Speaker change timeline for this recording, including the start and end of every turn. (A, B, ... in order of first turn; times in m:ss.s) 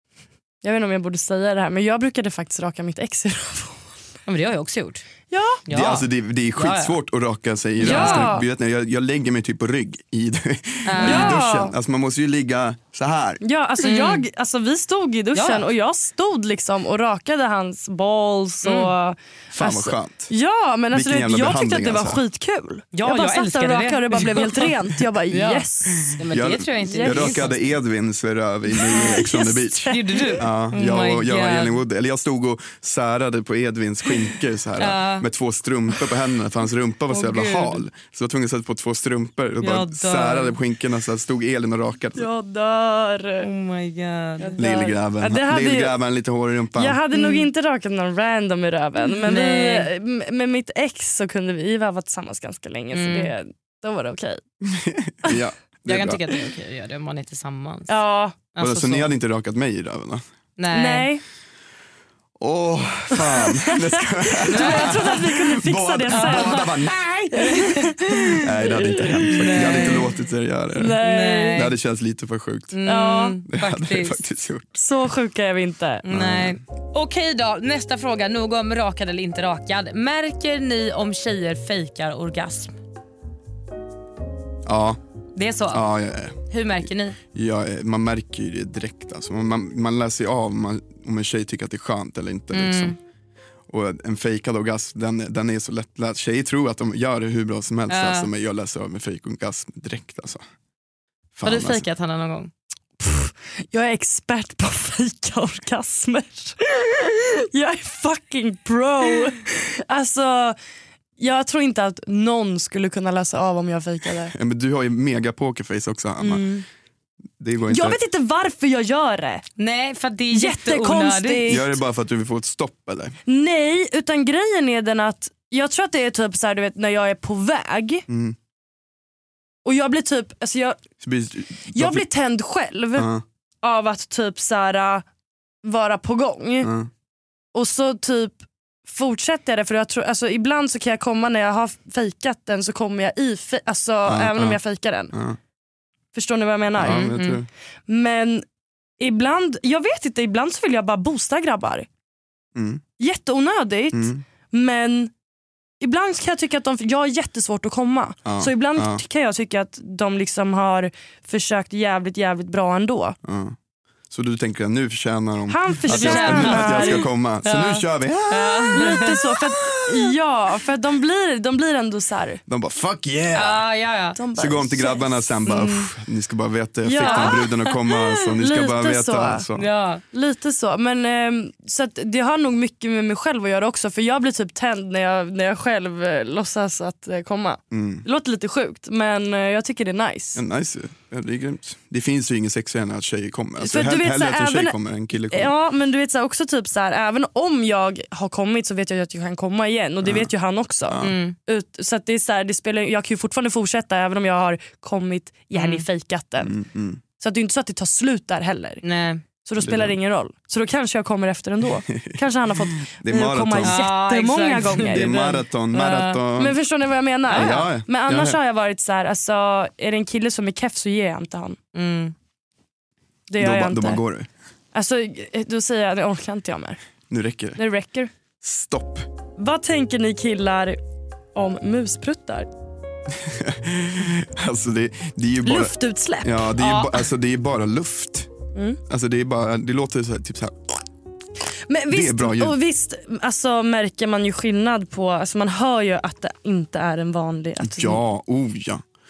0:00.6-0:04.0 A
0:04.3-0:05.0 B
0:05.3-0:05.6 A
0:05.7-0:07.0 B
0:05.7-0:13.4 C
0:07.8-0:08.3 B
0:07.8-0:08.4 A
0:10.9-0:11.4 B
0:11.0-0:11.8 A
0:13.4-0:26.2 A
0:13.8-0:14.2 B
0:15.4-0:15.7 B
0:18.6-0:18.9 B
0:19.5-0:20.3 C
0:20.9-0:22.2 C
0:22.9-0:24.7 B
0:25.3-0:27.6 B
0:26.1-0:42.3 C
0:26.8-0:27.5 A
0:28.7-0:30.4 A
0:28.9-0:31.8 B
0:34.8-0:35.3 B
0:37.1-0:37.8 B
0:39.6-0:40.6 B
0:42.2-0:43.5 A
0:43.4-0:44.6 B
0:44.4-0:46.0 A
0:44.6-0:47.0 C
0:46.8-0:54.4 A
0:47.1-0:47.5 B
0:49.2-0:49.9 B
0:52.9-0:53.3 B
0:54.6-0:56.5 C
0:55.9-0:58.0 B
0:57.9-0:58.4 A
0:58.5-0:59.1 B
0:58.6-1:00.2 C
1:00.6-1:01.1 B
1:00.7-1:01.2 A
1:02.4-1:07.5 C
1:03.2-1:03.7 A
1:04.3-1:06.7 A
1:04.5-1:05.1 B
1:06.1-1:08.4 B
1:07.3-1:10.0 A
1:08.4-1:11.0 C
1:09.3-1:10.1 B
1:10.8-1:11.6 A
1:11.0-1:11.7 B
1:11.5-1:12.8 C
1:12.7-1:14.2 B
1:12.8-1:13.4 A
1:13.4-1:14.8 C
1:14.8-1:16.0 A
1:16.0-1:22.8 B
1:16.1-1:16.6 C
1:24.6-1:25.0 C
1:25.4-1:25.9 B
1:25.7-1:33.0 C
1:26.4-1:27.2 B
1:32.5-1:33.0 B
1:33.7-1:40.4 C
1:37.9-1:38.3 B
1:41.4-1:41.8 C
1:41.4-1:42.5 B
1:43.0-1:50.6 A
1:51.2-1:54.3 A
1:54.3-1:56.4 C
1:56.2-1:56.6 A
1:57.4-1:58.0 C
1:57.7-1:59.4 A
1:59.6-2:01.5 B
2:00.3-2:01.8 A
2:01.5-2:03.2 C
2:03.3-2:08.0 A
2:08.1-2:08.4 C
2:09.6-2:10.8 A
2:11.0-2:12.1 C
2:11.7-2:13.1 A
2:13.0-2:13.2 C
2:13.6-2:15.0 A
2:15.6-2:16.7 A
2:16.6-2:16.9 C
2:17.5-2:25.1 A
2:24.1-2:24.6 C
2:25.1-2:25.4 C
2:26.1-2:27.2 A
2:26.8-2:27.5 C
2:26.8-2:27.4 B
2:27.9-2:28.4 A
2:29.0-2:31.9 A
2:32.6-2:32.8 C
2:33.0-2:35.1 A
2:33.9-2:34.2 C
2:35.8-2:43.2 A
2:38.3-2:39.0 C
2:43.2-2:43.6 C
2:44.1-2:49.0 C
2:45.5-2:47.0 A
2:45.9-2:49.2 B
2:48.7-2:52.4 A
2:52.5-2:53.7 C
2:53.3-2:54.2 B
2:54.2-2:55.9 A
2:54.4-2:59.7 C
2:56.8-2:59.5 A
2:57.0-2:57.6 B
2:59.5-3:00.0 B
3:00.1-3:10.4 A
3:07.7-3:08.1 C
3:10.4-3:15.5 C
3:13.6-3:14.8 A
3:15.3-3:26.5 A
3:20.0-3:20.3 C
3:20.9-3:21.2 C
3:21.0-3:21.4 B
3:25.5-3:25.8 B
3:26.4-3:27.0 C
3:27.2-3:35.4 A
3:28.8-3:29.2 B
3:29.6-3:30.0 C
3:31.9-3:32.2 C
3:32.8-3:33.8 C
3:33.6-3:36.2 B
3:34.7-3:36.6 C
3:36.4-3:41.6 A
3:37.3-3:37.7 B
3:37.3-3:38.4 C
3:41.8-3:42.1 B
3:43.3-3:44.0 A
3:43.4-3:44.3 C
3:44.7-3:46.8 A
3:47.1-3:47.6 C
3:47.6-3:48.1 A
3:48.4-3:49.1 C
3:49.4-3:50.8 A
3:51.4-3:52.5 A
3:53.2-3:58.3 C
3:55.4-3:56.6 A
3:56.6-3:56.9 B
3:58.6-3:58.8 A
3:58.9-4:00.8 C
4:01.7-4:08.0 A
4:01.9-4:02.6 C
4:07.6-4:08.8 C